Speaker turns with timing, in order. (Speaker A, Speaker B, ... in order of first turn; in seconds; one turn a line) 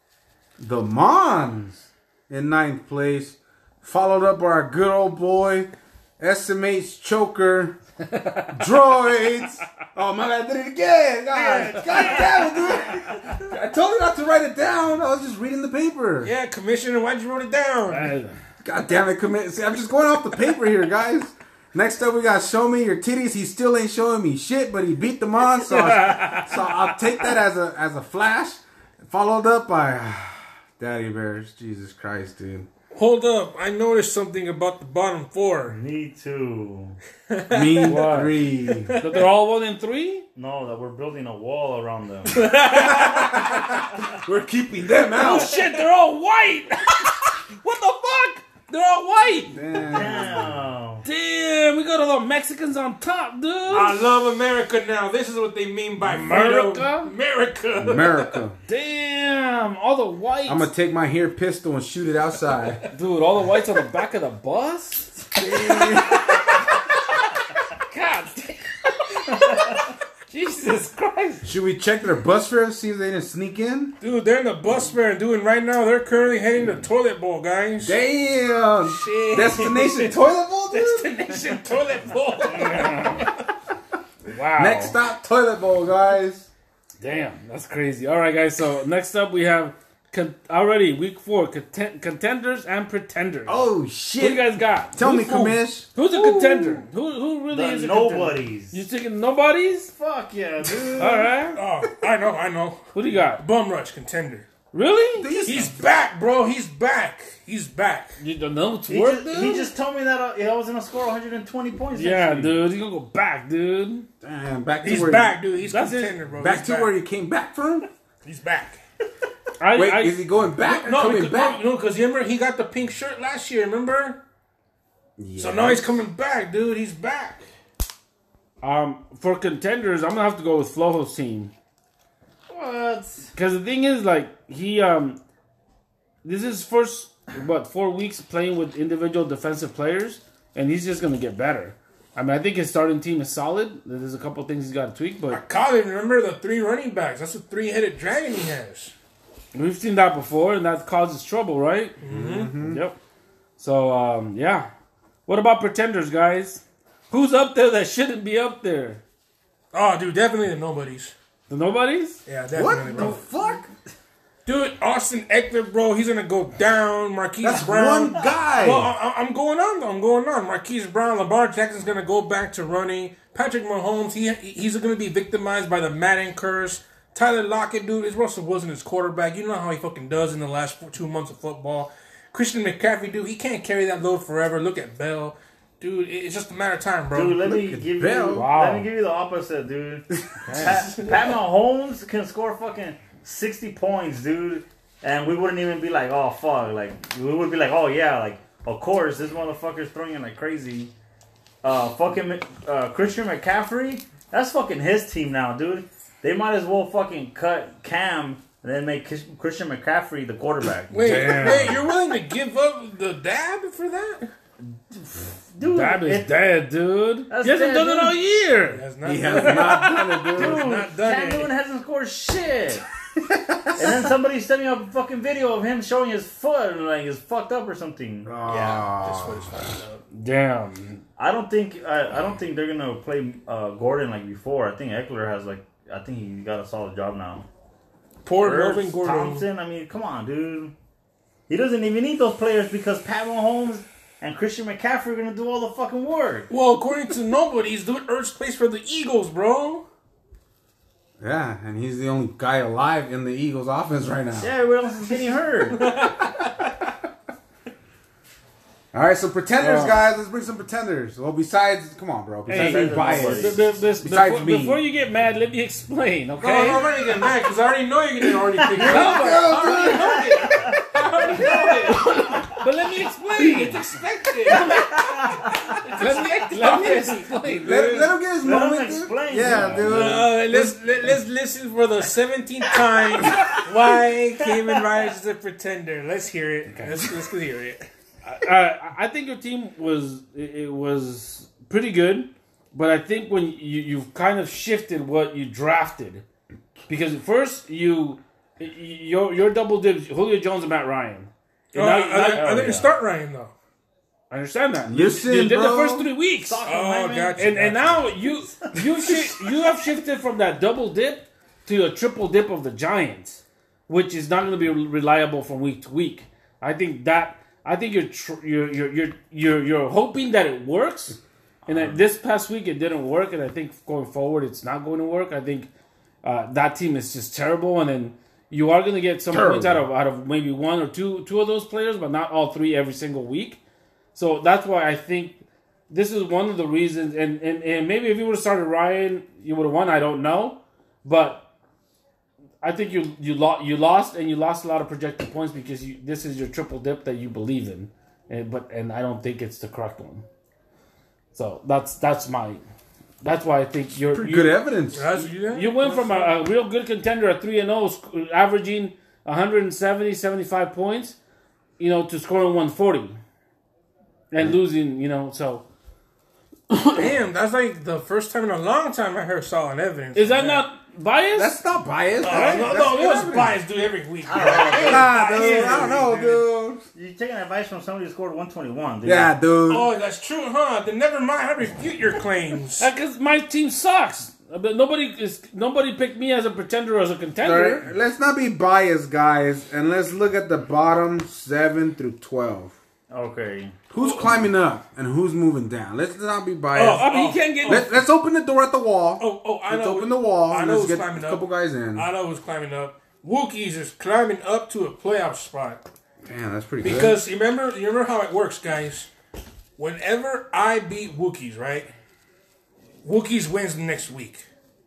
Speaker A: 0.6-7.8
Speaker B: 8.1-8.8
Speaker A: 8.5-16.3
Speaker C: 11.3-13.0
Speaker C: 16.2-18.1
Speaker B: 17.9-18.4
Speaker A: 18.6-32.7
Speaker B: 25.6-26.9
Speaker C: 32.9-35.8
Speaker D: 35.7-37.0
Speaker C: 37.3-38.3
Speaker A: 37.5-39.0
Speaker B: 37.8-38.4
Speaker C: 38.8-39.3
Speaker B: 39.0-40.3
Speaker D: 40.4-42.5
Speaker C: 42.3-43.8
Speaker A: 42.7-45.6
Speaker B: 45.1-49.6
Speaker C: 45.2-45.7
Speaker A: 49.5-50.5
Speaker D: 49.9-51.0
Speaker B: 51.0-54.0
Speaker C: 53.7-58.4
Speaker B: 56.0-57.1
Speaker A: 57.8-58.6
Speaker B: 58.7-60.7
Speaker A: 60.5-62.9
Speaker B: 62.9-67.0
Speaker A: 65.4-66.4
Speaker B: 67.7-71.5
Speaker A: 71.4-74.0
Speaker C: 74.0-78.0
Speaker A: 77.8-81.1
Speaker C: 78.9-80.2
Speaker C: 80.7-83.4
Speaker B: 82.5-83.3
Speaker B: 84.3-85.0
Speaker A: 84.6-86.5
Speaker B: 87.0-99.9
Speaker A: 93.5-95.9
Speaker D: 96.3-96.8
Speaker D: 97.5-98.8
Speaker D: 100.0-101.3
Speaker B: 101.0-101.6
Speaker C: 101.5-102.8
Speaker B: 102.9-103.4
Speaker C: 103.4-104.5
Speaker B: 104.7-105.5
Speaker A: 105.2-105.9
Speaker C: 105.4-108.2
Speaker B: 108.2-109.7
Speaker D: 108.9-112.6
Speaker B: 111.9-114.1
Speaker A: 114.2-115.4
Speaker C: 114.8-116.9
Speaker B: 115.6-116.2
Speaker A: 116.4-117.9
Speaker C: 118.2-118.8
Speaker B: 119.6-120.2
Speaker A: 119.8-121.6
Speaker C: 120.6-124.2
Speaker A: 125.2-126.0
Speaker C: 125.4-127.5
Speaker B: 128.6-131.5
Speaker D: 132.5-133.3
Speaker B: 133.3-135.2
Speaker B: 136.2-145.4
Speaker C: 145.3-148.9
Speaker B: 149.5-152.0
Speaker C: 152.0-152.5
Speaker A: 152.1-152.8
Speaker B: 152.5-153.0
Speaker B: 153.6-154.7
Speaker B: 155.3-159.0
Speaker C: 159.7-161.1
Speaker B: 161.5-162.2
Speaker C: 162.3-163.2
Speaker A: 162.5-163.7
Speaker D: 163.0-163.6
Speaker C: 164.4-187.5
Speaker A: 167.4-168.9
Speaker D: 187.1-200.9
Speaker A: 187.4-188.5
Speaker B: 188.3-188.9
Speaker B: 190.4-190.9
Speaker C: 190.5-191.3
Speaker D: 201.6-211.4
Speaker C: 210.9-214.3
Speaker B: 211.0-211.7
Speaker A: 211.0-211.8
Speaker D: 214.9-216.4
Speaker B: 215.7-218.8
Speaker D: 217.3-218.2
Speaker C: 218.7-221.5
Speaker A: 219.0-220.7
Speaker B: 219.4-220.0
Speaker D: 220.3-222.8
Speaker A: 223.2-224.0
Speaker D: 223.8-228.3
Speaker A: 228.2-229.6
Speaker C: 228.5-230.0
Speaker B: 230.1-231.0
Speaker D: 231.2-237.5
Speaker C: 238.2-239.4
Speaker D: 238.4-240.7
Speaker D: 241.5-246.5
Speaker C: 246.5-249.8
Speaker A: 251.2-254.5
Speaker D: 254.4-255.8
Speaker C: 255.8-256.7
Speaker A: 258.9-264.8
Speaker B: 259.6-260.0
Speaker D: 262.5-263.6
Speaker B: 262.5-266.9
Speaker C: 266.4-272.5
Speaker B: 268.7-269.9
Speaker A: 268.7-270.4
Speaker D: 269.7-272.6
Speaker B: 271.4-275.0
Speaker C: 273.4-277.3
Speaker D: 274.8-275.5
Speaker B: 275.8-278.1
Speaker A: 277.5-280.8
Speaker D: 278.4-279.9
Speaker B: 279.4-280.2
Speaker C: 279.8-287.8
Speaker D: 283.2-283.6
Speaker B: 288.2-296.2
Speaker B: 296.9-302.9
Speaker C: 301.7-303.5
Speaker D: 302.3-302.9
Speaker B: 304.3-306.6
Speaker A: 304.9-306.1
Speaker D: 306.4-308.5
Speaker C: 306.6-308.0
Speaker B: 307.4-325.7
Speaker A: 321.7-322.0
Speaker B: 326.2-333.6
Speaker A: 329.3-329.9
Speaker B: 334.1-335.4
Speaker B: 335.9-341.5
Speaker B: 342.6-350.2
Speaker B: 351.3-352.6
Speaker B: 353.2-361.1
Speaker A: 354.1-355.1
Speaker C: 354.9-356.4
Speaker B: 361.8-363.2
Speaker B: 364.3-365.6
Speaker B: 366.7-367.1
Speaker C: 366.9-370.7
Speaker B: 370.1-371.6
Speaker A: 371.3-373.6
Speaker C: 372.2-376.4
Speaker B: 372.3-372.7
Speaker D: 374.3-375.9
Speaker A: 374.5-376.8
Speaker D: 376.9-379.3
Speaker A: 379.0-379.9
Speaker C: 379.7-382.9
Speaker B: 382.8-387.9
Speaker A: 387.4-392.7
Speaker D: 393.1-393.8
Speaker A: 393.9-402.1
Speaker C: 394.0-394.4
Speaker C: 396.7-397.9
Speaker B: 396.9-397.9
Speaker C: 399.2-405.8
Speaker A: 406.3-407.2
Speaker C: 406.8-409.1
Speaker C: 409.8-411.9
Speaker C: 413.0-414.4